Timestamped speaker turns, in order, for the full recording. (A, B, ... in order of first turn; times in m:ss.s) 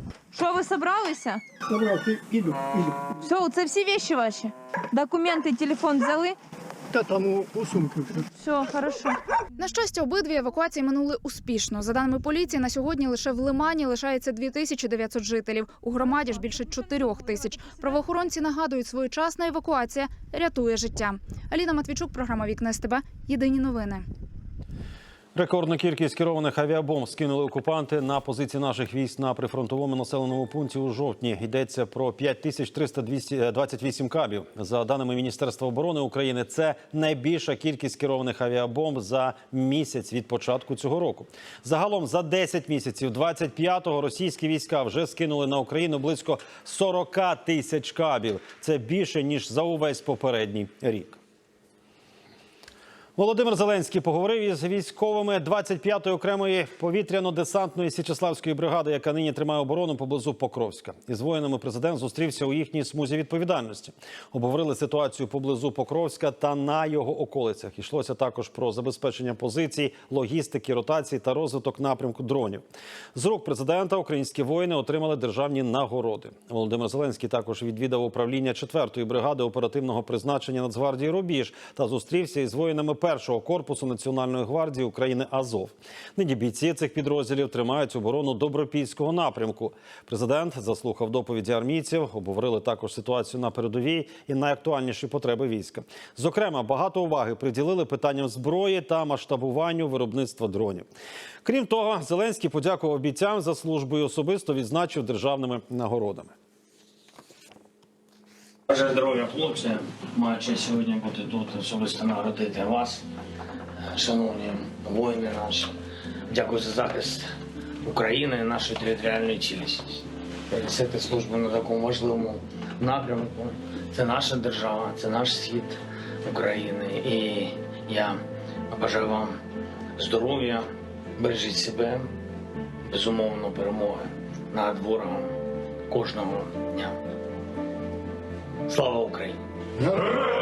0:00.3-0:01.4 A
0:01.8-0:02.9 B
0:03.2-0:06.4 A
0:06.9-0:08.1 B
0:08.3-0:09.2 A
0:09.6-0:24.0 C
0:25.3-0:51.2 D
0:53.2-1:12.6 D
1:13.1-1:40.9 D
1:41.4-1:46.3 D
1:48.7-1:53.0 E
1:54.0-1:55.7 E
1:56.3-1:57.3 E
1:57.9-2:00.0 E
2:00.5-2:05.8 E
2:06.3-2:08.2 E
2:08.7-2:09.3 E
2:10.0-2:10.6 E
2:11.2-2:12.0 E
2:12.9-2:15.3 E
2:15.9-2:16.9 E
2:18.7-2:19.4 E